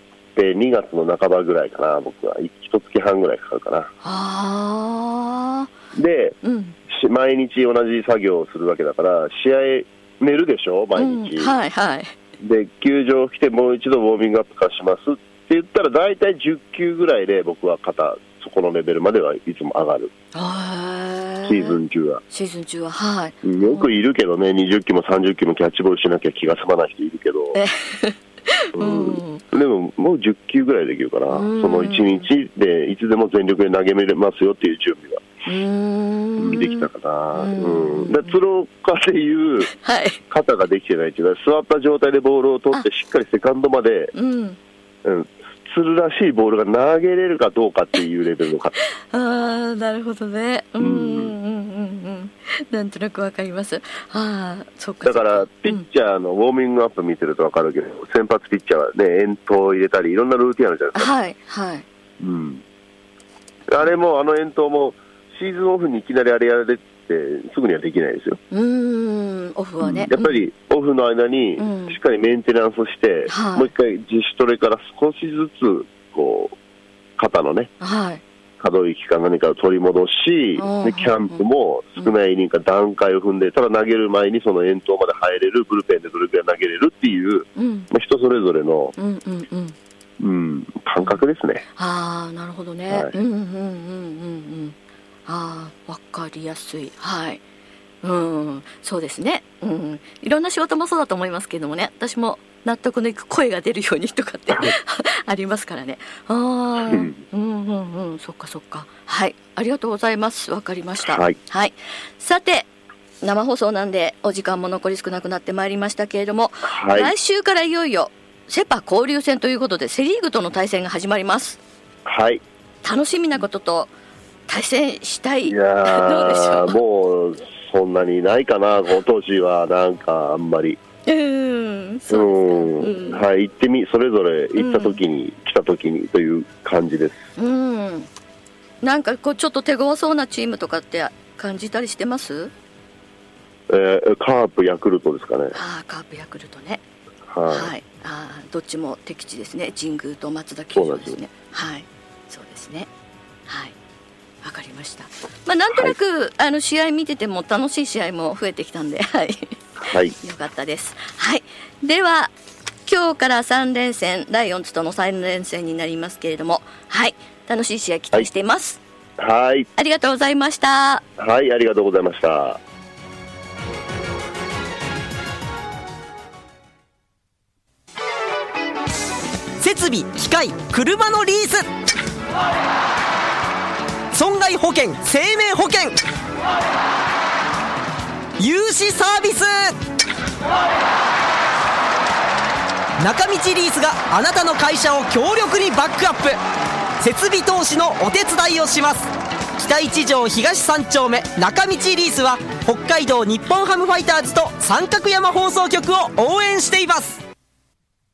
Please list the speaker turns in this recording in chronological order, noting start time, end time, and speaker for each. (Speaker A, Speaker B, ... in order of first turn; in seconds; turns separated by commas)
Speaker A: 0.3-3.9, Speaker B: 4.0-5.7, Speaker A: 5.9-6.4, Speaker B: 6.4-6.8, Speaker A: 6.9-11.5, Speaker B: 10.9-12.1, Speaker A: 12.4-20.1, Speaker B: 20.3-21.8, Speaker A: 21.4-22.2, Speaker B: 22.3-23.9, Speaker A: 23.4-27.6, Speaker B: 27.5-29.4, Speaker A: 28.8-35.2, Speaker B: 31.3-32.3, Speaker B: 35.4-38.3, Speaker A: 36.4-39.7, Speaker B: 39.7-40.2, Speaker A: 40.3-44.1, Speaker B: 44.1-44.6, Speaker A: 45.0-48.7, Speaker B: 48.8-55.9, Speaker A: 50.8-51.3, Speaker A: 55.0-61.1, Speaker B: 60.9-61.8, Speaker A: 62.2-62.6, Speaker A: 63.7-68.4, Speaker B: 68.5-70.5, Speaker A: 69.8-76.5, Speaker B: 71.6-72.0, Speaker B: 73.3-73.7, Speaker A: 77.2-77.7, Speaker B: 77.8-78.2, Speaker A: 78.6-88.9, Speaker B: 80.5-81.4, Speaker B: 87.5-87.9, Speaker B: 89.0-89.8, Speaker A: 90.2-91.6, Speaker B: 91.7-97.4, Speaker A: 92.9-93.2, Speaker B: 98.0-112.7, Speaker A: 111.0-111.4, Speaker B: 113.2-121.6, Speaker A: 116.7-117.1, Speaker A: 122.0-122.4, Speaker B: 122.8-123.9, Speaker B: 124.5-126.8, Speaker A: 125.5-130.8, Speaker B: 131.1-133.2, Speaker A: 132.1-137.2, Speaker B: 134.6-135.0, Speaker B: 137.4-138.1, Speaker B: 138.8-142.5, Speaker A: 143.7-145.6, Speaker B: 145.5-146.8, Speaker A: 147.3-147.7, Speaker B: 147.4-152.9, Speaker A: 150.7-151.2, Speaker B: 153.5-153.7, Speaker B: 154.4-162.3, Speaker A: 159.8-160.1, Speaker B: 162.8-168.8, Speaker A: 169.2-169.7, Speaker B: 169.8-171.1, Speaker A: 171.2-172.6, Speaker C: 179.6-181.6, Speaker C: 184.1-186.0, Speaker C: 188.4-189.7, Speaker C: 193.0-196.4, Speaker C: 197.0-207.2